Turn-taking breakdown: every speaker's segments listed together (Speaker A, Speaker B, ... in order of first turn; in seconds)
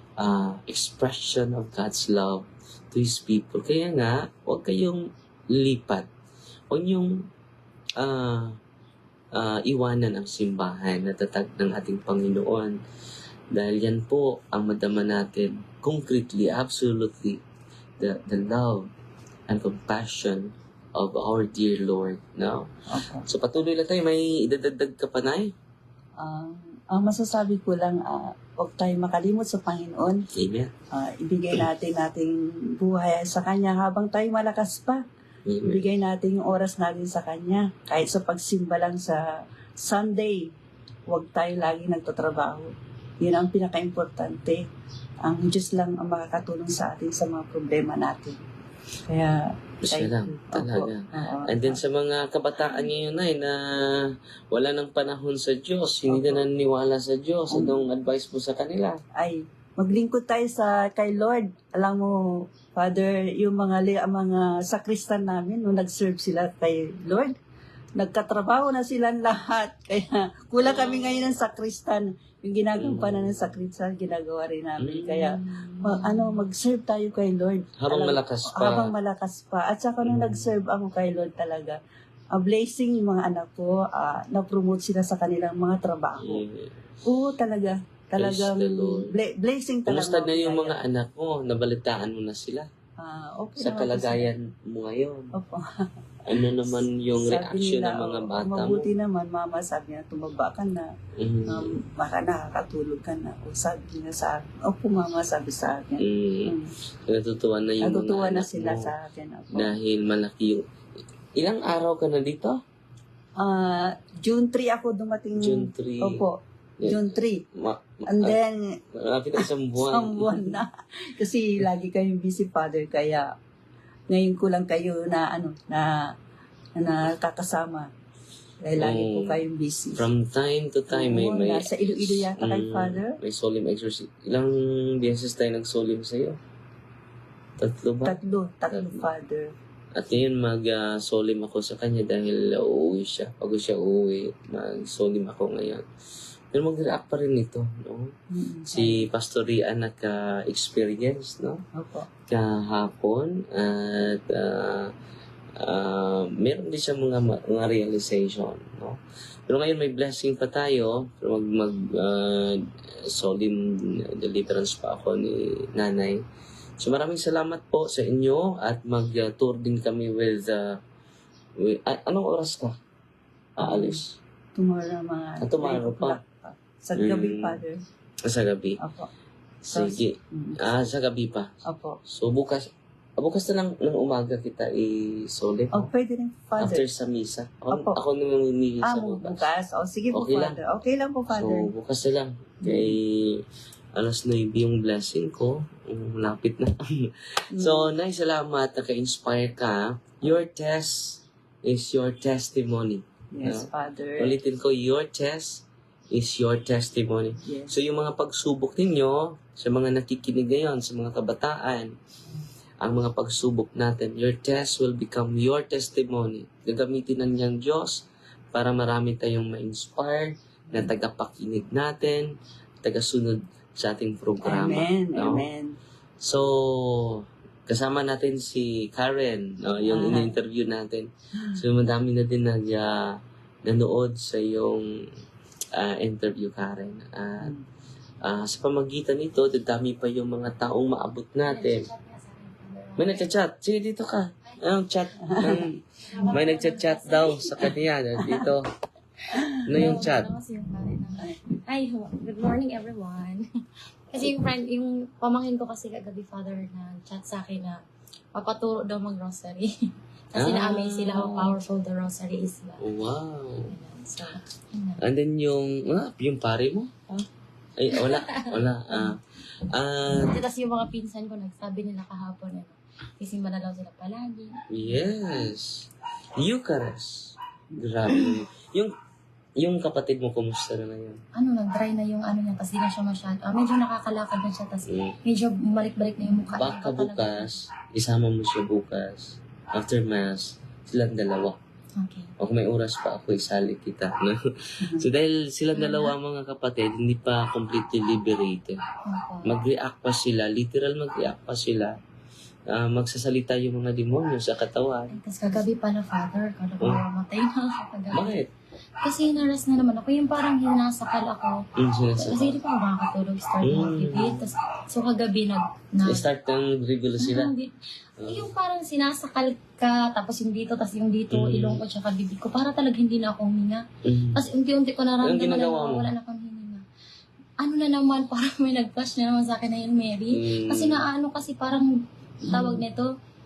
Speaker A: 0.2-6.1, 6.7-7.3, 8.0-8.6, 9.3-12.8, 13.5-17.4, 18.0-18.9, 19.5-22.7, 23.2-25.5, 30.3-30.7, 35.5-35.8, 49.8-59.0, 70.6-71.4, 72.8-73.5, 74.8-76.3, 77.8-78.9, 80.0-80.5, 86.2-86.8, 88.2-89.1, 89.9-92.7, 93.6-95.3, 96.3-98.9, 101.2-101.8, 106.0-108.9, 109.5-110.6, 111.4-112.6, 115.4-116.2, 116.8-118.4, 118.9-120.6, 128.8-129.4, 129.9-136.4, 137.6-138.2, 138.7-139.0, 139.9-145.8, 146.5-148.1, 148.7-151.6, 152.3-154.9, 155.6-166.2, 166.8-170.8, 171.6-172.8, 173.6-174.2, 175.4-176.2, 176.9-177.6, 178.2-178.8, 179.6-181.5, 182.0-185.9, 186.6-189.5, 190.1-190.6, 191.3-193.4, 193.9-211.9, 212.8-225.5, 226.2-235.0, 235.7-237.5, 238.2-241.9, 243.0-248.7, 249.6-250.3, 260.3-261.6, 262.8-263.8, 265.0-267.0, 267.8-270.4, 274.7-278.9, 279.6-281.2, 284.9-285.2, 286.5-291.6, 292.4-298.8, 299.4-301.9, 302.7-305.2, 308.1-308.5, 311.8-312.6, 313.6-314.4, 316.0-317.5, 318.2-318.5, 321.3-321.8, 324.0-324.4, 325.2-326.1, 330.3-331.1, 332.5-332.8
Speaker B: 22.9-23.2, 26.2-30.2, 30.9-35.0, 35.6-39.2, 39.8-40.5, 41.1-44.7, 45.2-48.4, 49.1-51.8, 56.0-56.4, 57.5-57.8, 59.1-67.3, 68.0-81.8, 82.3-86.4, 87.0-90.8, 93.0-94.3, 95.3-96.4, 97.2-100.9, 101.5-106.7, 107.8-109.7, 113.4-117.4, 118.1-118.8, 119.4-123.3, 124.1-126.1, 126.8-127.9, 128.6-130.1, 130.9-133.2, 138.0-139.5, 148.3-149.1, 151.7-152.1, 173.6-174.0, 174.5-177.8, 178.8-179.1, 179.7-180.6, 181.6-182.0, 185.7-186.8, 187.7-188.0, 188.8-191.7, 192.6-193.0, 197.5-197.9, 203.3-204.3, 207.4-207.7, 224.4-225.8, 229.8-230.3, 237.4-237.6, 245.2-245.7
Speaker C: 241.4-243.3, 246.0-247.7, 249.5-253.4, 254.1-257.8, 258.3-259.7, 260.3-262.9, 263.7-265.0, 267.9-269.1, 270.1-274.6, 281.3-287.6, 292.0-292.3, 295.7-296.1, 299.1-299.6, 305.1-308.4, 309.0-311.6, 312.2-316.3, 317.2-326.8, 327.6-333.1